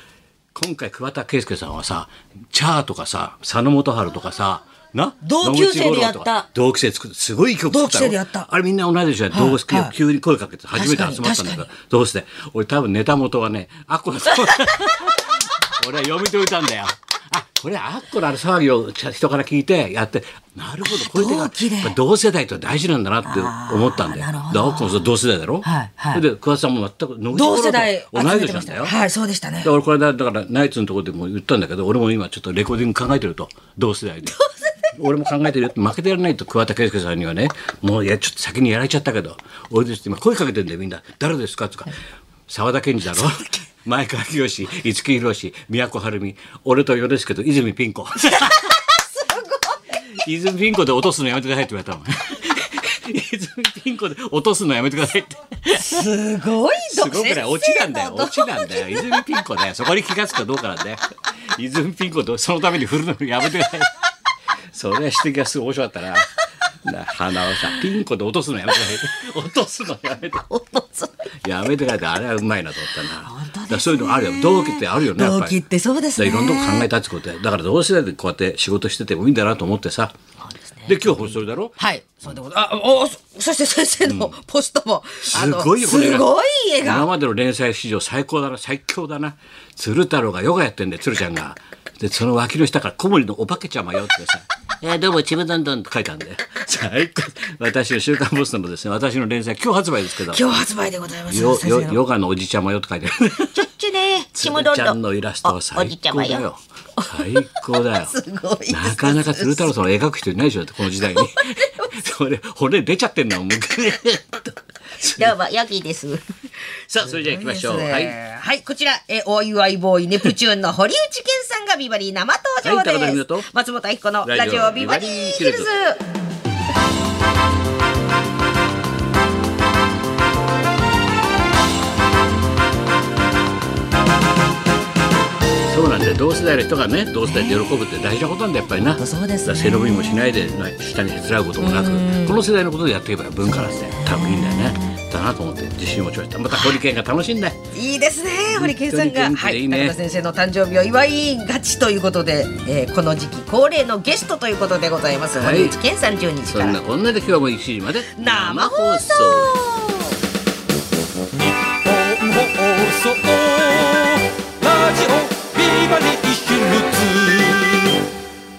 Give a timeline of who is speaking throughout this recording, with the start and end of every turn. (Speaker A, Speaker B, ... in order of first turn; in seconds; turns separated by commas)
Speaker A: 0.5-28.9, Speaker B: 5.2-6.5, Speaker B: 7.7-8.5, Speaker B: 9.3-9.9, Speaker B: 10.8-11.7, Speaker B: 20.9-22.0, Speaker B: 23.2-25.1, Speaker B: 25.6-26.2, Speaker B: 27.3-29.7, Speaker A: 29.6-34.4, Speaker B: 34.4-34.6, Speaker A: 34.9-41.9, Speaker A: 42.5-48.6, Speaker B: 48.3-49.8, Speaker A: 50.2-56.1, Speaker B: 55.7-59.2, Speaker A: 56.9-63.9, Speaker A: 64.7-66.3, Speaker A: 66.8-70.4, Speaker B: 70.5-71.3, Speaker A: 71.4-75.6, Speaker B: 73.2-76.9, Speaker A: 76.2-80.1, Speaker B: 80.7-87.1, Speaker A: 80.9-81.8, Speaker A: 84.0-84.3, Speaker A: 85.2-86.3, Speaker A: 86.8-100.5, Speaker B: 100.3-102.0, Speaker A: 101.3-103.7, Speaker B: 103.5-106.4, Speaker A: 104.4-108.2, Speaker B: 107.0-107.3, Speaker B: 108.0-109.7, Speaker A: 108.7-115.3, Speaker B: 111.0-111.9, Speaker B: 115.0-116.2, Speaker A: 116.9-118.2, Speaker B: 117.0-126.0, Speaker A: 122.6-123.5, Speaker A: 124.2-125.7, Speaker A: 135.7-147.6, Speaker B: 137.3-137.7, Speaker B: 139.0-140.5, Speaker B: 141.6-142.4, Speaker B: 143.5-145.0, Speaker B: 147.7-156.8, Speaker A: 148.5-149.9, Speaker A: 155.3-155.8, Speaker A: 156.5-159.6, Speaker B: 158.1-160.2, Speaker C: 161.4-167.9